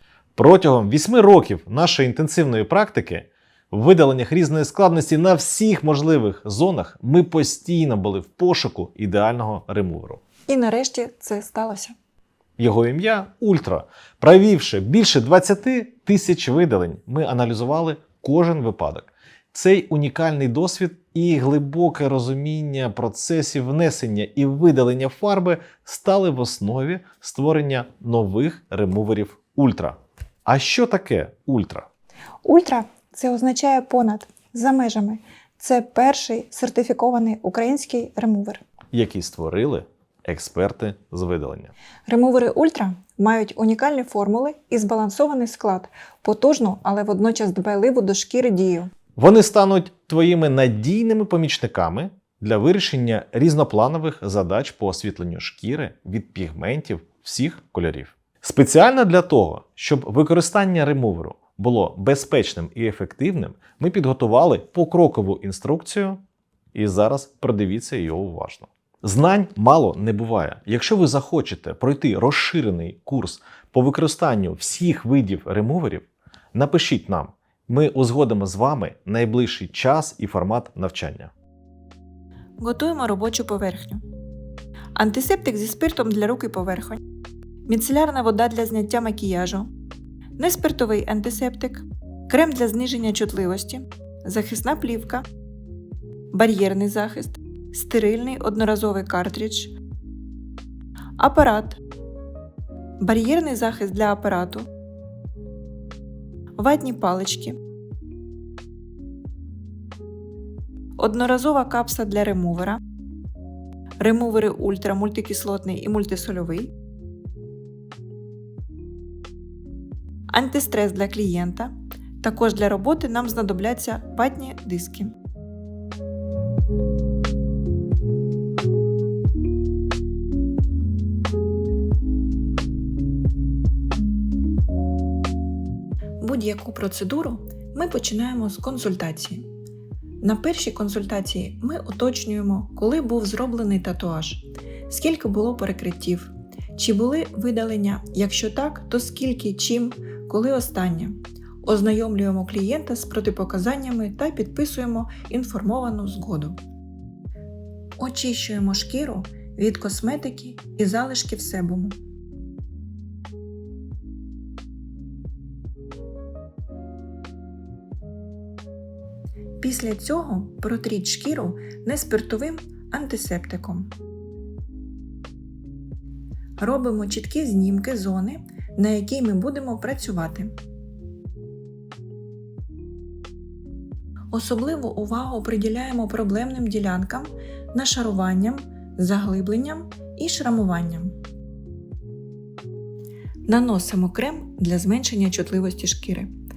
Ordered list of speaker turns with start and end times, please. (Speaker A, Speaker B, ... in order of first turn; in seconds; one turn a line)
Speaker A: 0.3-10.2
Speaker B: 10.5-11.9
Speaker A: 12.6-31.9
Speaker B: 32.4-38.6
Speaker A: 38.9-41.7
Speaker B: 42.1-48.9
Speaker A: 49.1-66.2
Speaker A: 66.7-81.3
Speaker B: 82.6-84.0
Speaker B: 85.0-87.0
Speaker B: 87.7-89.7
Speaker B: 90.4-95.3
Speaker B: 96.3-99.7
Speaker B: 101.2-101.8
Speaker B: 103.0-104.7
Speaker B: 106.5-107.6
Speaker B: 111.0-112.8
Speaker B: 114.0-116.7
Speaker B: 120.3-125.2
Speaker B: 136.2-139.4
Speaker B: 140.2-156.6
Speaker B: 158.0-162.0
Speaker B: 169.6-173.9
Speaker B: 176.6-180.5
Speaker B: 184.3-191.2
Speaker B: 193.5-196.3